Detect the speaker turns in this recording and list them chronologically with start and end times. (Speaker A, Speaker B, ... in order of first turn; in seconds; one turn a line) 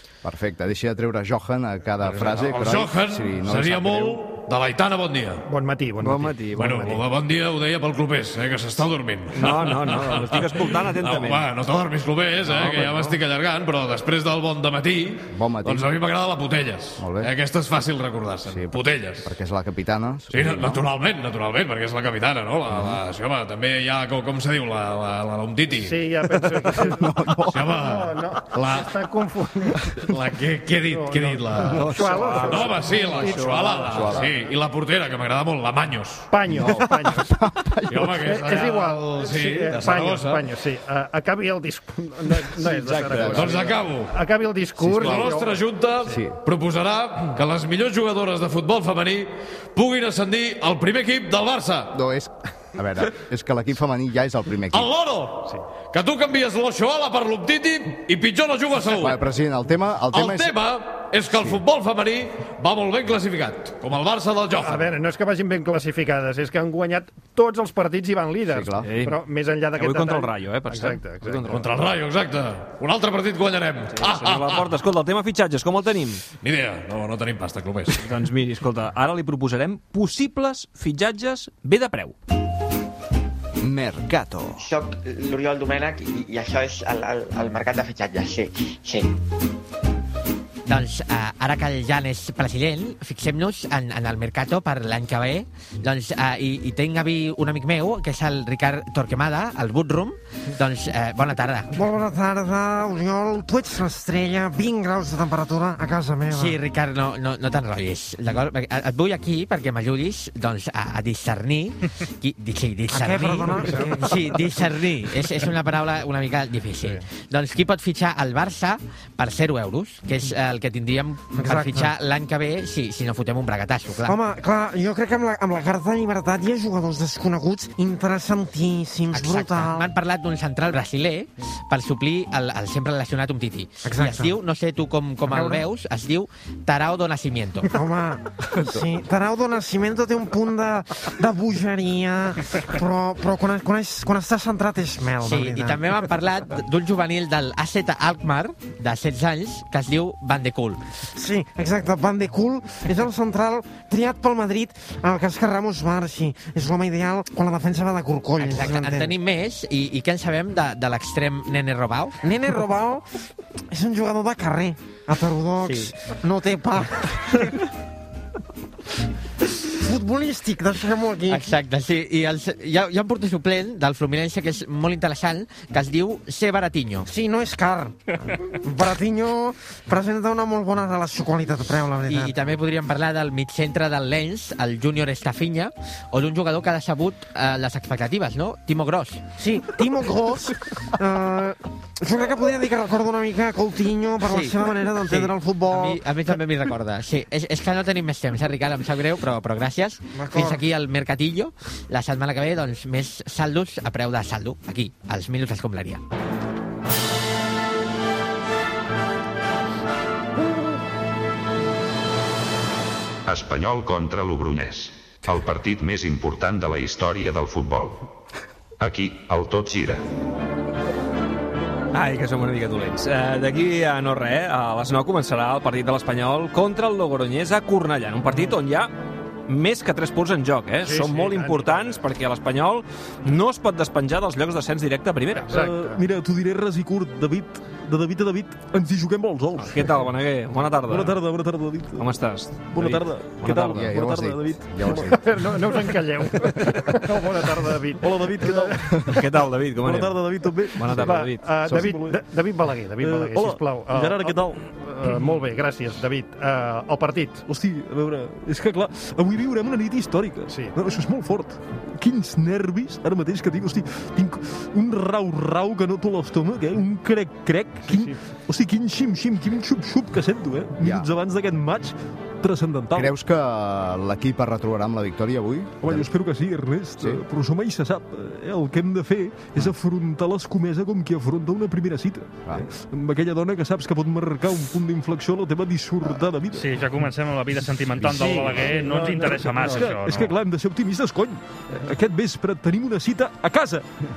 Speaker A: 0.2-4.2
Speaker B: 2.0-5.4
Speaker C: 5.5-6.9
Speaker D: 6.0-7.0
Speaker B: 6.5-19.3
Speaker D: 9.3-11.5
Speaker D: 12.5-13.1
Speaker A: 15.3-15.9
Speaker A: 17.0-17.3
Speaker A: 18.5-20.8
Speaker B: 20.3-26.0
Speaker A: 22.7-23.0
Speaker C: 25.7-27.1
Speaker A: 26.7-27.8
Speaker B: 27.5-28.9
Speaker C: 27.7-29.9
Speaker B: 30.0-36.3
Speaker C: 30.9-34.1
Speaker D: 31.7-34.1
Speaker A: 33.8-34.3
Speaker C: 36.3-37.4
Speaker A: 36.5-38.4
Speaker B: 37.9-40.5
Speaker C: 38.2-46.2
Speaker D: 42.6-43.5
Speaker A: 43.1-43.6
Speaker B: 43.1-44.1
Speaker A: 44.8-45.4
Speaker B: 44.8-51.9
Speaker A: 46.0-46.3
Speaker A: 51.9-54.9
Speaker B: 54.7-59.2
Speaker A: 58.9-60.6
Speaker B: 60.1-64.9
Speaker A: 61.3-61.6
Speaker C: 64.6-71.7
Speaker A: 68.5-68.9
Speaker D: 68.8-69.2
Speaker D: 69.8-71.6
Speaker B: 71.5-74.7
Speaker D: 73.9-76.2
Speaker B: 76.4-78.1
Speaker D: 77.9-82.1
Speaker A: 83.6-84.6
Speaker E: 84.6-89.1
Speaker F: 90.7-101.7
Speaker G: 101.7-106.6
Speaker F: 106.3-124.2
Speaker G: 112.9-114.7
Speaker G: 121.3-121.9
Speaker G: 124.0-129.9
Speaker F: 129.1-137.7
Speaker G: 133.8-134.4
Speaker G: 135.3-135.7
Speaker G: 137.7-146.1
Speaker A: 138.6-138.8
Speaker F: 145.2-150.8
Speaker G: 151.1-159.2
Speaker F: 158.4-162.2
Speaker G: 162.2-163.1
Speaker G: 163.7-167.5
Speaker F: 165.6-165.9
Speaker G: 169.7-171.6
Speaker F: 171.3-177.1
Speaker G: 177.1-177.9
Speaker G: 178.5-182.4
Speaker F: 182.1-189.2
Speaker G: 189.4-196.0
Speaker F: 194.2-194.6
Speaker F: 195.1-206.0
Speaker G: 200.1-200.7
Speaker H: 213.3-218.1
Speaker H: 218.8-220.0
Speaker D: 221.9-228.9
Speaker D: 229.5-235.5
Speaker C: 230.8-232.0
Speaker C: 235.3-236.0
Speaker I: 235.5-240.0
Speaker D: 239.6-241.2
Speaker I: 240.9-245.1
Speaker D: 242.0-244.0
Speaker A: 243.7-245.2
Speaker C: 244.9-248.8
Speaker I: 248.0-252.2
Speaker D: 249.1-251.5
Speaker C: 251.0-257.4
Speaker I: 253.0-254.6
Speaker I: 257.5-273.1
Speaker C: 260.5-260.7
Speaker C: 267.9-268.2
Speaker A: 270.8-271.1
Speaker A: 272.9-276.1
Speaker I: 275.8-286.7
Speaker J: 286.5-290.3
Speaker C: 288.1-289.9
Speaker I: 288.1-293.8